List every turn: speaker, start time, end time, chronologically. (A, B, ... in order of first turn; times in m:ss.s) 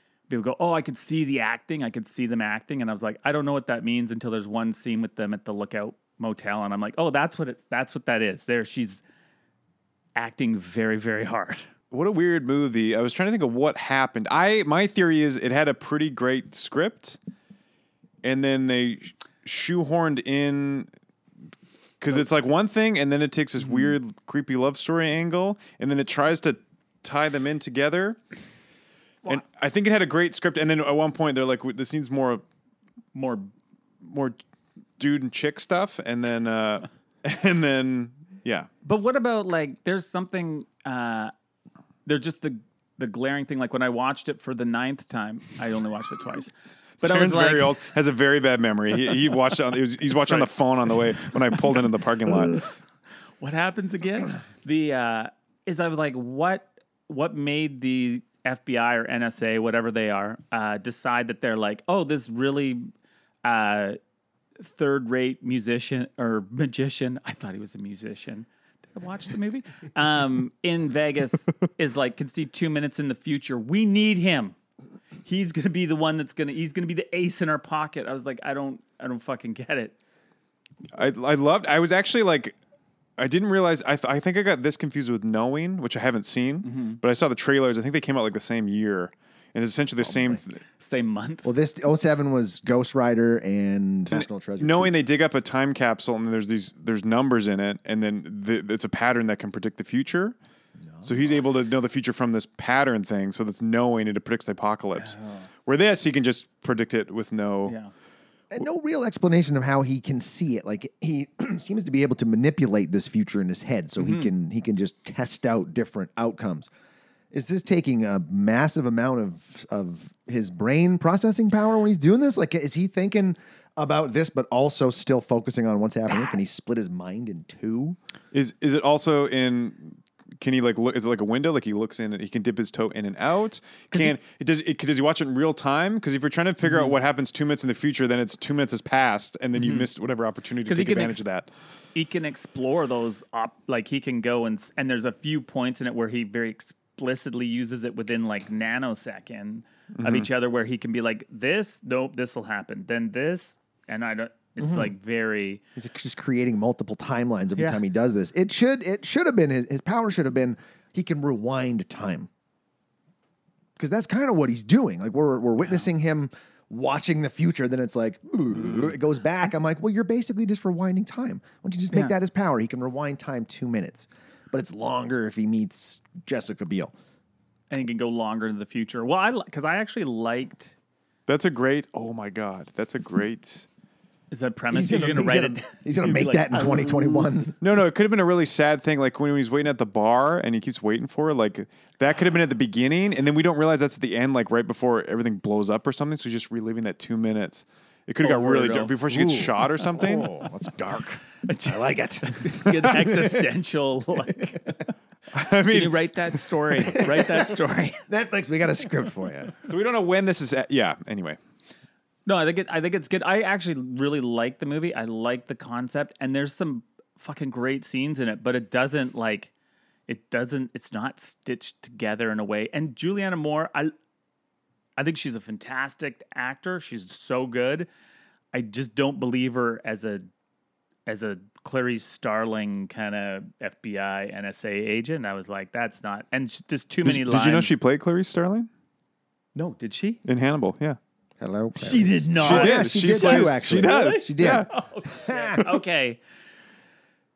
0:00.3-0:09.0 A
0:10.2-0:11.6 A
0:11.9-0:17.2 B
0:18.2-0:20.9 B
0:22.0-0:28.2 B
0:29.2-0:32.4 B
0:33.1-0:33.5 A
0:34.0-0:34.4 B
0:35.0-0:38.7 B
0:38.8-0:41.3 A
0:42.0-0:47.8 A
0:47.0-0:52.6 B
0:50.1-0:50.5 A
0:53.4-1:02.9 A
1:03.4-1:04.0 A
1:04.6-1:14.6 A
1:15.2-1:19.9 A
1:20.9-1:22.6 B
1:23.2-1:30.6 B
1:26.6-1:27.0 A
1:30.0-1:30.4 C
1:30.8-1:31.5 A
1:31.4-1:35.0 C
1:34.1-1:40.4 B
1:40.8-1:41.4 C
1:41.0-1:47.8 B
1:45.0-1:45.4 A
1:47.6-1:47.9 A
1:48.5-1:56.7 C
1:54.0-1:54.3 A
1:57.3-2:08.0 C
2:08.3-2:21.5 B
2:19.6-2:19.8 A
2:20.6-2:21.2 A
2:21.9-2:35.6 A
2:30.0-2:30.3 B
2:34.6-2:34.9 C
2:35.8-2:42.3 C
2:37.6-2:37.8 A
2:43.8-2:56.9 C
2:45.6-2:45.9 A
2:57.7-3:00.7 A
3:01.3-3:03.7 B
3:04.3-3:07.3 A
3:04.7-3:07.6 C
3:07.6-3:20.3 B
3:18.2-3:19.0 A
3:19.0-3:22.4 C
3:21.4-3:24.8 A
3:22.6-3:23.1 B
3:25.3-3:26.2 B
3:25.6-3:28.0 A
3:26.9-3:27.6 C
3:28.1-3:29.6 C
3:29.6-3:31.4 B
3:32.2-3:39.5 A
3:40.1-3:43.9 A
3:45.0-3:47.9 A
3:48.5-3:50.3 A
3:51.0-3:57.7 A
3:57.0-3:58.7 B
3:59.5-4:00.2 A
4:00.2-4:01.0 B
4:01.4-4:05.6 C
4:01.8-4:06.2 A
4:02.3-4:04.7 B